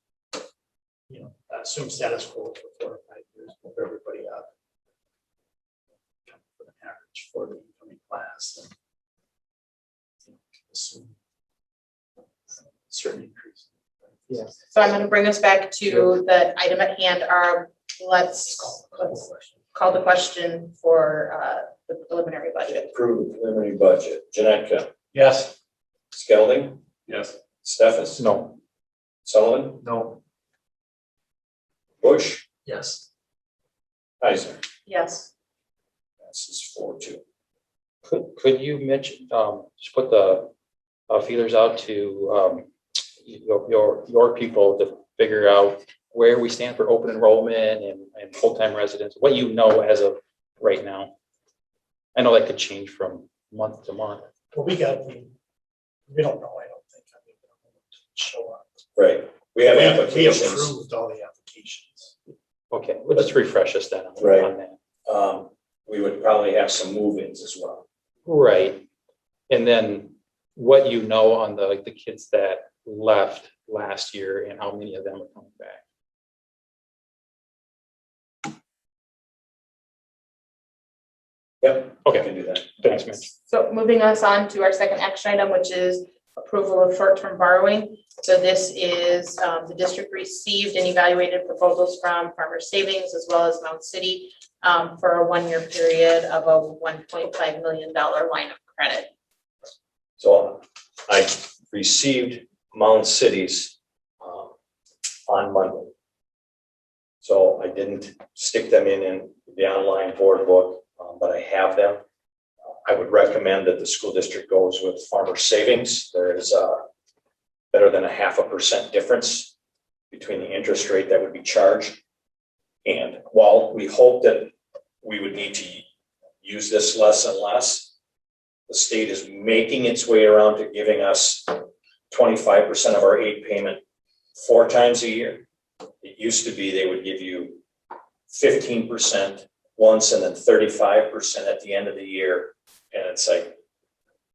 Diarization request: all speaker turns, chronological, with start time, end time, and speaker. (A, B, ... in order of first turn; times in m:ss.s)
0:01.1-0:04.5 A
0:06.3-0:08.7 A
0:10.3-0:11.1 A
0:12.9-0:13.6 A
0:14.7-0:22.9 B
0:22.8-0:24.9 C
0:25.2-0:25.5 A
0:26.1-0:26.8 C
0:27.6-0:28.3 C
0:28.2-0:28.6 D
0:29.2-0:29.8 C
0:32.0-0:32.4 C
0:34.2-0:34.6 C
0:34.9-0:35.3 B
0:36.2-0:37.2 C
0:38.1-0:40.5 D
0:41.1-0:42.7 D
0:43.2-0:51.1 D
0:52.2-0:54.3 D
0:54.5-0:55.3 A
0:56.1-0:58.6 A
0:59.0-1:00.7 C
0:59.7-1:02.1 A
1:02.7-1:04.8 D
1:04.2-1:04.5 C
1:05.1-1:07.8 C
1:08.3-1:08.9 D
1:09.5-1:15.8 D
1:21.6-1:22.8 C
1:22.0-1:23.3 D
1:23.4-1:39.1 B
1:40.2-1:44.5 C
1:45.3-1:45.9 C
1:47.2-1:52.0 C
1:52.8-1:56.8 C
1:57.7-1:59.5 C
2:00.1-2:02.0 C
2:02.8-2:05.9 C
2:06.4-2:07.9 C
2:08.7-2:13.8 C
2:14.4-2:15.4 C
2:16.0-2:17.6 C
2:18.3-2:23.6 C